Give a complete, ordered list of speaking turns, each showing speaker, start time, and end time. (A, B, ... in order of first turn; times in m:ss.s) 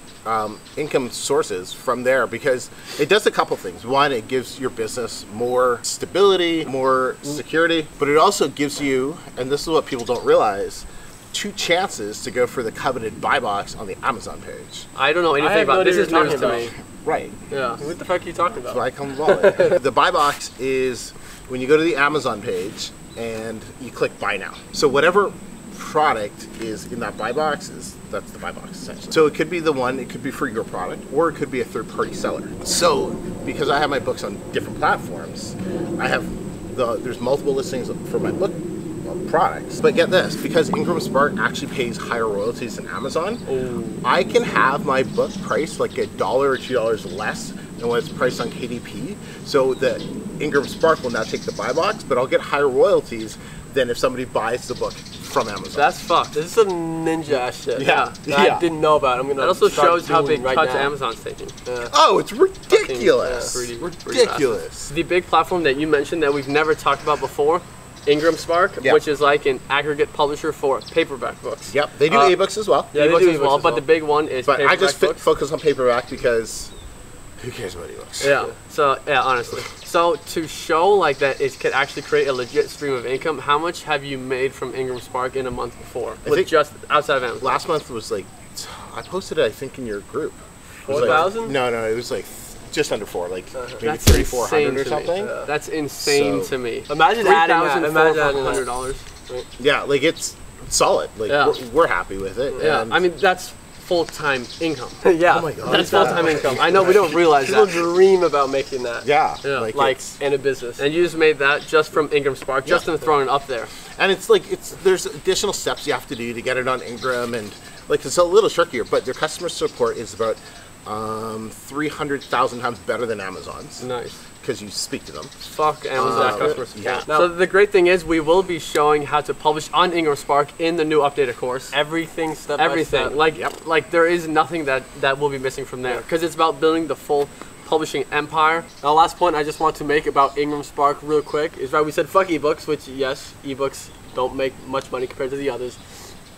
0:00.2-0:14.9 A
0:15.0-0:16.7 B
0:15.4-0:16.7 C
0:16.5-0:17.3 A
0:17.5-0:17.8 B
0:17.8-0:19.8 C
0:18.7-0:43.5 A
0:43.5-0:44.0 B
0:44.0-0:55.9 A
0:55.7-0:56.4 B
0:56.3-1:00.9 C
0:57.8-0:58.7 A
0:57.8-0:58.2 B
0:59.4-1:01.5 B
1:01.7-1:01.9 C
1:01.9-1:04.9 A
1:02.7-1:12.3 B
1:03.2-1:03.6 C
1:11.7-1:12.9 A
1:12.9-1:13.8 C
1:12.9-1:15.2 B
1:14.4-1:16.7 A
1:17.4-1:18.4 A
1:18.2-1:27.6 B
1:26.2-1:26.5 A
1:27.4-1:35.3 A
1:30.9-1:31.4 B
1:30.9-1:31.5 C
1:33.6-1:33.8 C
1:33.8-1:39.1 B
1:35.2-1:35.5 C
1:36.0-1:36.5 A
1:36.9-1:38.6 C
1:39.6-1:43.0 A
1:41.3-1:41.6 B
1:42.6-1:45.0 B
1:45.0-1:49.1 C
1:45.3-1:47.2 A
1:45.6-1:47.8 B
1:49.0-1:50.0 A
1:49.4-1:49.7 B
1:49.7-1:50.8 C
1:50.8-1:53.7 B
1:53.9-2:03.9 A
2:03.8-2:04.2 B
2:04.4-2:05.3 A
2:05.5-2:11.8 B
2:06.0-2:07.1 A
2:06.0-2:07.3 C
2:11.7-2:13.2 C
2:12.6-2:18.7 B
2:13.3-2:13.6 A
2:18.8-2:26.0 C